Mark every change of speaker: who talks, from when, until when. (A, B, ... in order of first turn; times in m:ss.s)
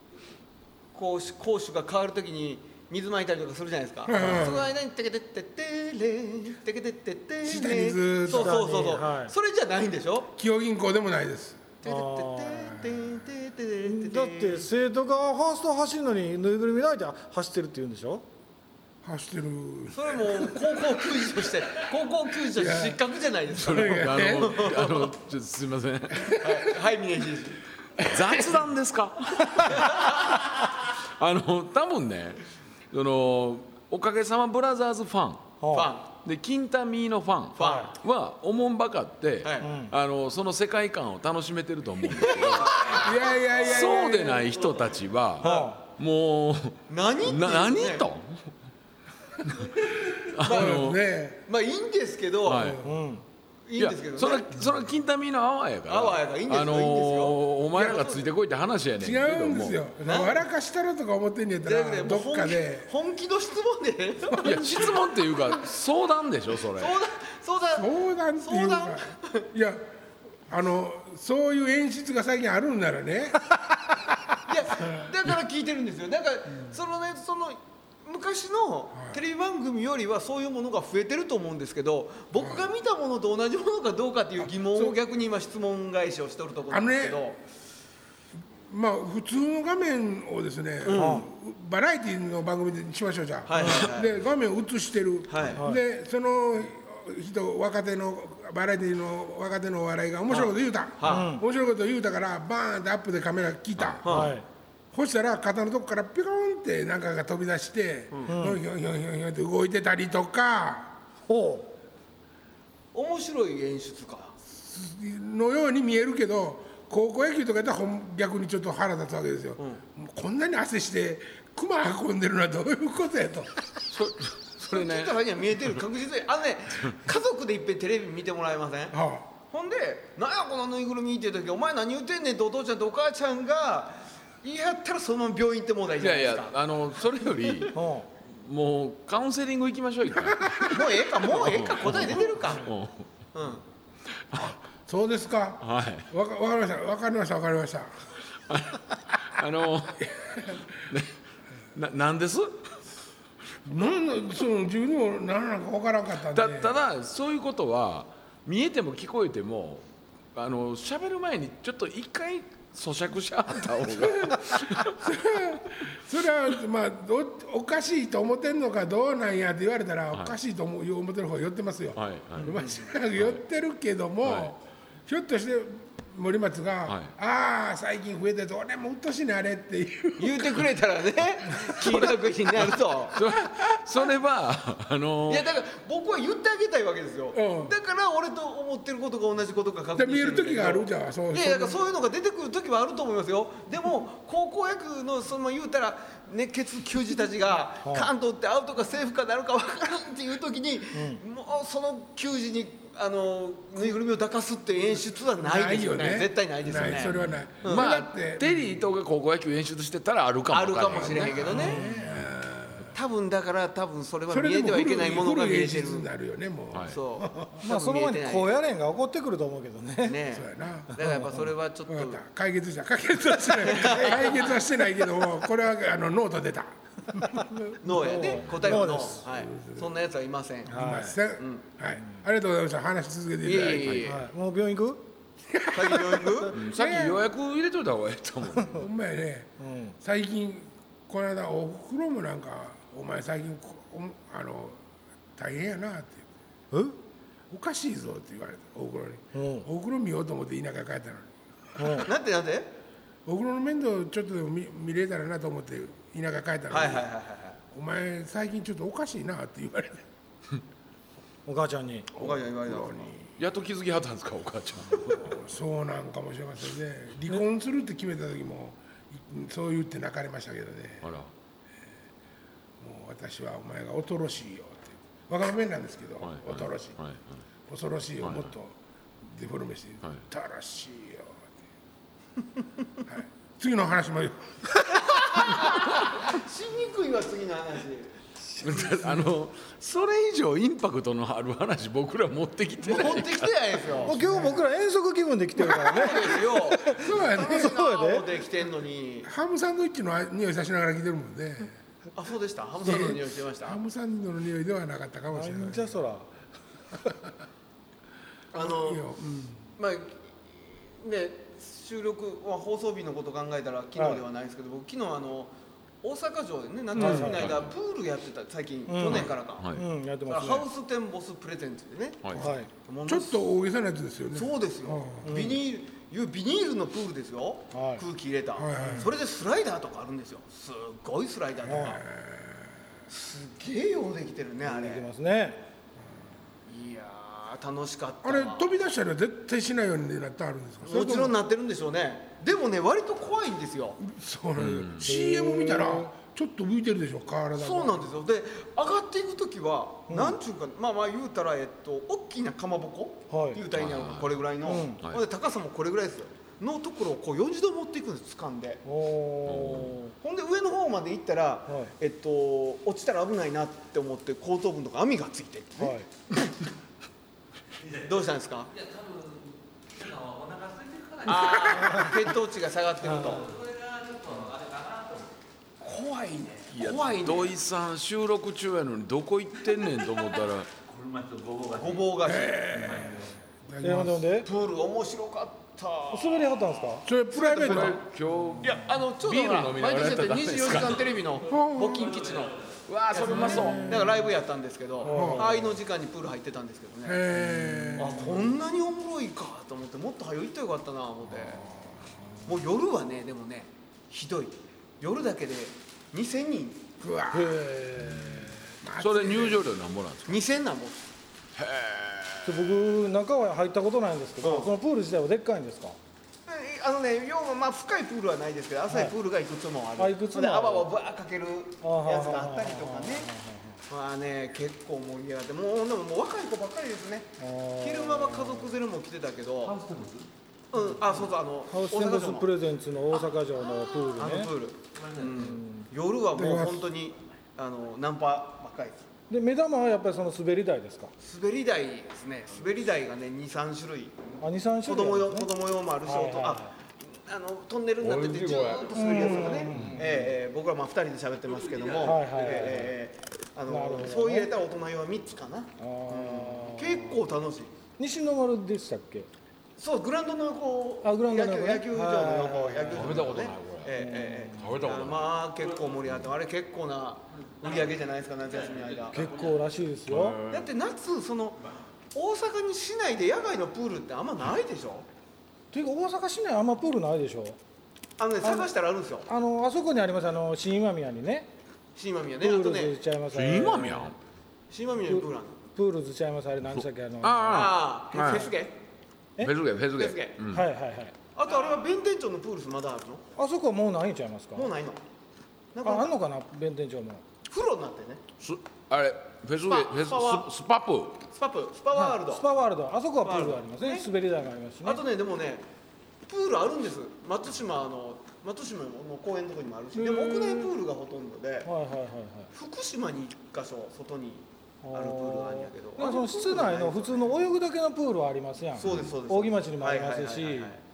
0:00.9-0:10.3 A
0:04.1-0:04.7 B
0:07.4-0:08.7 B
0:08.3-0:09.3 C
0:10.4-0:11.7 B
0:11.8-0:14.7 A
0:11.8-0:12.6 C
0:12.7-0:13.1 B
0:13.8-0:18.2 C
0:19.0-0:20.8 B
0:19.9-0:25.1 A
0:22.5-0:23.0 B
0:23.5-0:26.4 D
0:23.6-0:24.7 B
0:26.2-0:28.6 A
0:26.3-0:26.6 B
0:28.0-0:35.6 D
0:29.4-0:30.4 A
0:35.6-0:35.9 C
0:35.7-0:36.1 A
0:36.2-0:48.4 D
0:37.6-0:38.0 A
0:37.6-0:37.9 C
0:39.4-0:39.8 A
0:39.6-0:39.9 C
0:42.2-0:43.1 A
0:42.3-0:44.6 B
0:45.4-0:45.7 A
0:45.4-0:45.8 C
0:46.9-0:48.1 A
0:49.4-0:51.0 D
0:50.4-0:50.8 A
0:50.4-0:51.4 B
0:51.5-0:52.8 A
0:52.4-0:52.8 D
0:52.5-0:53.0 B
0:52.8-0:53.2 C
0:53.7-0:54.6 A
0:53.8-0:59.8 D
0:55.9-0:58.3 A
0:59.0-1:02.9 B
1:00.0-1:00.4 A
1:01.6-1:05.1 A
1:04.4-1:07.0 D
1:06.7-1:07.9 A
1:07.7-1:09.8 B
1:08.4-1:09.5 A
1:10.5-1:14.2 B
1:14.5-1:27.4 A
1:18.9-1:19.2 B
1:22.4-1:22.7 B
1:24.4-1:25.0 B
1:26.7-1:27.3 B
1:28.7-1:44.4 B
1:30.8-1:31.2 A
1:30.9-1:31.3 C
1:33.5-1:34.1 A
1:33.6-1:33.8 C
1:35.3-1:35.6 A
1:40.3-1:41.3 A
1:41.0-1:41.4 C
1:44.0-1:44.3 A
1:44.1-1:44.4 C
1:44.9-1:51.0 B
1:48.3-1:48.6 C
1:51.3-1:51.7 C
1:52.9-1:54.4 A
1:54.5-2:03.5 B
2:03.9-2:05.8 D
2:04.7-2:16.6 A
2:08.9-2:09.3 B
2:16.0-2:23.1 D
2:17.7-2:18.1 C
2:20.4-2:20.7 B
2:20.6-2:22.7 A
2:23.3-2:23.6 A
2:24.3-2:24.6 D
2:24.3-2:28.1 B
2:25.6-2:26.1 D
2:28.5-2:30.1 D
2:30.0-2:30.8 B
2:31.7-2:32.7 D
2:33.6-2:36.8 B
2:36.3-2:45.6 D
2:44.0-3:00.7 B
2:52.0-2:52.6 D
2:54.2-2:54.5 D
3:00.2-3:03.2 A
3:01.5-3:02.1 B
3:03.1-3:05.5 D
3:03.3-3:03.8 B
3:05.3-3:27.9 A
3:07.3-3:07.7 B
3:10.0-3:11.8 B
3:17.8-3:18.1 C
3:20.9-3:21.2 C
3:25.4-3:28.8 B
3:26.7-3:31.6 D
3:30.5-3:31.8 A
3:30.9-3:32.9 B
3:31.5-3:32.2 C
3:32.9-3:36.1 A
3:34.3-3:36.9 B
3:36.7-3:37.0 D
3:36.9-3:38.6 A
3:37.3-3:40.2 C
3:40.0-3:42.2 A
3:40.3-3:40.9 B
3:41.0-3:41.4 C
3:41.9-3:47.8 B
3:43.5-3:44.6 A
3:47.8-3:50.8 A
3:47.9-3:49.2 C
3:48.8-3:49.9 B
3:50.7-3:51.2 C
3:50.7-3:54.1 B
3:51.4-3:51.6 A
3:53.4-3:54.2 A
3:54.1-3:55.0 C
3:55.5-3:57.2 B
3:55.7-3:56.6 A
3:56.5-3:58.8 D
3:58.7-4:04.8 B
3:59.6-4:00.0 C
4:05.4-4:06.3 B
4:06.7-4:07.0 C
4:07.5-4:12.1 B
4:09.3-4:09.7 C
4:11.8-4:12.1 C
4:12.0-4:12.7 A
4:13.3-4:17.1 B
4:16.7-4:17.6 A
4:17.7-4:20.1 B
4:21.5-4:22.1 C
4:22.2-4:23.3 B
4:22.2-4:23.1 A
4:23.4-4:25.3 D
4:25.2-4:31.1 B
4:31.0-4:31.3 D
4:32.8-4:37.0 B
4:36.2-4:37.3 D
4:37.7-4:41.4 B
4:38.2-4:38.5 D
4:43.1-4:45.6 B
4:45.0-4:48.1 A
4:48.6-4:53.5 D
4:52.8-4:54.2 A
4:54.0-4:58.3 C
4:54.1-4:54.6 B
4:55.6-4:59.3 A
4:56.8-4:57.8 B
4:59.2-5:01.8 B
5:02.2-5:03.8 A
5:02.8-5:06.0 B
5:05.3-5:06.3 C
5:08.5-5:09.1 A
5:08.6-5:09.6 B
5:09.8-5:10.2 A
5:11.0-5:19.7 A
5:14.0-5:14.2 C
5:16.9-5:17.5 C
5:17.0-5:17.7 D
5:18.9-5:20.7 C
5:19.1-5:19.8 D
5:20.3-5:23.4 A
5:22.3-5:25.5 B
5:22.4-5:22.7 C
5:24.3-5:32.0 A
5:25.2-5:25.6 C
5:27.7-5:28.0 C
5:28.6-5:29.2 B
5:28.8-5:29.0 C
5:31.6-5:32.8 B
5:31.7-5:32.0 C
5:33.1-5:35.1 A
5:34.6-5:35.6 C
5:36.7-5:38.6 A
5:38.2-5:41.4 B
5:40.8-5:44.0 A
5:44.0-5:48.2 B
5:44.6-5:45.1 D
5:45.0-5:46.1 C
5:47.6-5:58.8 A
5:50.1-5:50.4 C
5:53.3-5:53.6 C
5:53.7-5:54.5 D
5:54.6-5:55.0 C
5:58.8-6:00.1 C
5:59.5-6:00.0 D
6:00.2-6:06.0 A
6:01.7-6:01.9 C
6:05.8-6:06.1 C
6:07.7-6:12.4 E
6:08.1-6:08.7 A
6:11.2-6:13.5 A
6:13.1-6:13.4 C
6:13.1-6:15.3 E
6:15.8-6:17.6 A
6:16.7-6:20.7 D
6:20.7-6:23.4 E
6:21.8-6:22.8 A
6:22.2-6:24.3 B
6:23.8-6:24.5 C
6:24.4-6:28.0 A
6:26.1-6:27.1 C
6:27.0-6:28.0 B
6:27.5-6:31.2 D
6:28.6-6:32.6 A
6:31.5-6:32.2 B
6:31.6-6:32.8 E
6:32.9-6:34.0 D
6:33.1-6:37.3 A
6:33.2-6:34.3 C
6:35.0-6:35.8 C
6:35.1-6:35.6 B
6:37.0-6:38.5 B
6:38.0-6:41.7 A
6:42.4-6:46.9 A
6:47.0-6:49.6 B
6:49.0-6:50.4 D
6:50.3-6:51.0 A
6:51.6-6:52.9 D
6:52.4-6:56.0 C
6:54.4-6:54.7 A
6:56.5-7:03.3 A
6:58.9-6:59.2 C
7:00.0-7:00.9 C
7:01.8-7:03.8 C
7:03.9-7:09.8 A
7:07.4-7:08.7 C
7:09.6-7:10.3 E
7:10.7-7:12.5 A
7:11.7-7:14.5 C
7:13.8-7:19.1 A
7:14.9-7:15.4 E
7:15.4-7:15.9 C
7:16.3-7:16.8 B
7:19.3-7:21.1 C
7:21.2-7:37.7 A
7:24.4-7:25.5 C
7:26.0-7:26.7 C
7:28.0-7:29.0 D
7:28.9-7:30.3 C
7:31.4-7:32.2 E
7:32.0-7:33.0 C
7:33.7-7:34.5 C
7:35.8-7:37.2 C
7:38.0-7:39.3 C
7:39.8-7:49.2 A
7:41.0-7:43.3 C
7:42.9-7:44.0 D
7:44.0-7:44.6 C
7:44.6-7:45.4 D
7:45.6-7:45.9 E
7:47.6-7:48.0 E
7:48.5-7:49.7 E
7:49.1-7:50.4 C
7:50.1-7:50.7 D
7:50.5-7:51.6 A
7:52.1-7:55.1 A
7:55.7-7:57.6 C
7:58.2-7:59.3 A
7:58.4-7:58.7 C
7:59.3-8:01.5 C
8:02.0-8:03.0 A
8:02.4-8:04.1 C
8:03.3-8:04.2 D
8:04.7-8:05.6 A
8:05.1-8:07.7 C
8:06.8-8:08.5 D
8:07.5-8:08.8 A
8:09.4-8:10.7 D
8:10.0-8:10.4 A
8:10.5-8:11.1 C
8:11.4-8:13.2 A
8:13.4-8:14.7 C
8:14.6-8:15.0 A
8:15.7-8:16.2 A
8:15.8-8:17.2 C
8:17.5-8:18.2 A
8:18.4-8:21.2 D
8:19.6-8:20.5 A
8:21.3-8:22.5 A
8:21.9-8:25.0 C
8:23.2-8:24.1 A
8:24.8-8:25.7 A
8:26.3-8:31.7 A
8:30.0-8:30.7 C
8:31.6-8:32.5 C
8:32.5-8:37.3 A
8:34.8-8:40.7 C
8:38.8-8:40.8 A